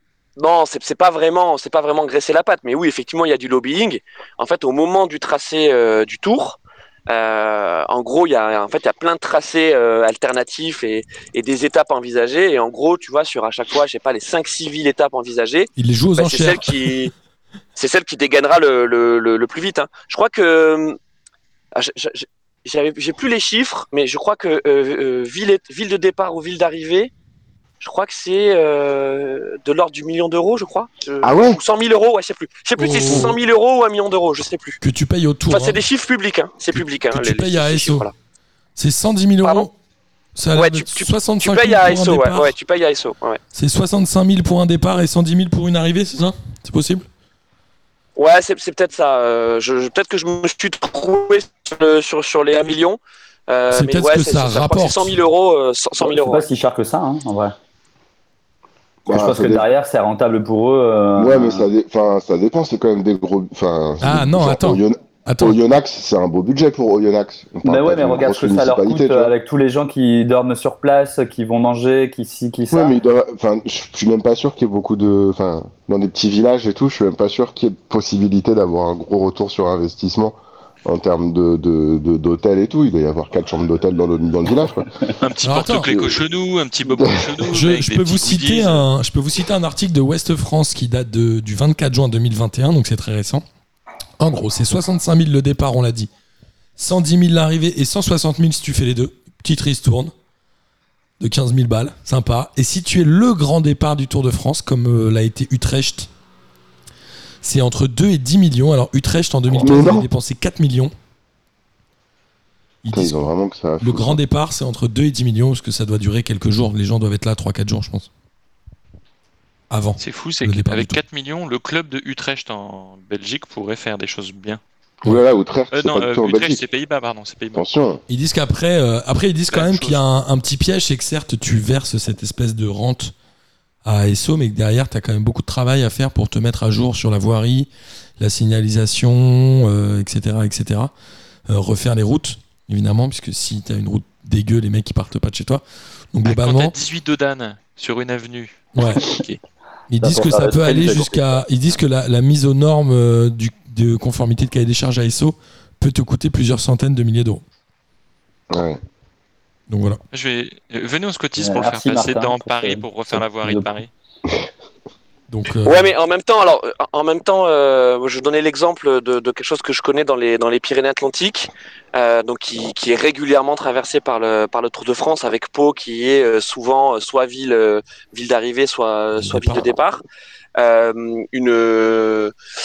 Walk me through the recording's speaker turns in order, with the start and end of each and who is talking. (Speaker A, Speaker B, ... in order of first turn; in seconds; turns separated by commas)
Speaker A: 0.4-17.1, Speaker B: 15.8-16.9, Speaker A: 17.8-21.0, Speaker A: 21.7-27.1, Speaker A: 27.8-34.8, Speaker C: 31.2-31.6, Speaker B: 32.8-33.4, Speaker B: 34.8-35.8, Speaker A: 35.5-38.1, Speaker B: 36.7-38.1, Speaker B: 38.8-39.7, Speaker A: 39.4-39.7, Speaker B: 40.3-42.5, Speaker A: 40.5-43.4, Speaker B: 43.5-47.1, Speaker A: 48.1-56.5, Speaker B: 53.7-55.2, Speaker D: 56.0-57.5, Speaker C: 59.1-59.7, Speaker D: 59.1-61.6, Speaker C: 61.2-69.3, Speaker B: 64.0-65.6, Speaker D: 67.6-72.9, Speaker C: 72.7-85.1, Speaker E: 85.2-88.8, Speaker B: 85.4-85.9, Speaker C: 85.9-86.1, Speaker C: 86.8-87.3, Speaker B: 87.5-93.4, Speaker B: 94.2-96.1, Speaker B: 96.8-100.1, Speaker B: 101.2-106.1, Speaker B: 107.4-110.9, Speaker C: 109.5-110.1, Speaker B: 112.8-113.2, Speaker C: 112.9-114.2, Speaker B: 113.8-118.1, Speaker B: 119.7-121.0, Speaker E: 120.0-124.6, Speaker C: 125.0-126.6, Speaker E: 125.7-127.6, Speaker C: 127.5-128.0, Speaker B: 128.1-133.1, Speaker E: 129.5-130.0, Speaker B: 133.8-140.9, Speaker B: 141.5-146.7, Speaker E: 146.2-149.4, Speaker B: 148.8-149.0, Speaker D: 148.8-149.2, Speaker B: 149.9-157.4, Speaker D: 150.0-151.4, Speaker C: 158.5-158.8, Speaker B: 159.7-160.0, Speaker E: 160.1-163.9, Speaker D: 161.4-163.7, Speaker B: 165.3-165.9, Speaker A: 165.6-180.0, Speaker B: 179.2-179.7, Speaker A: 180.6-182.3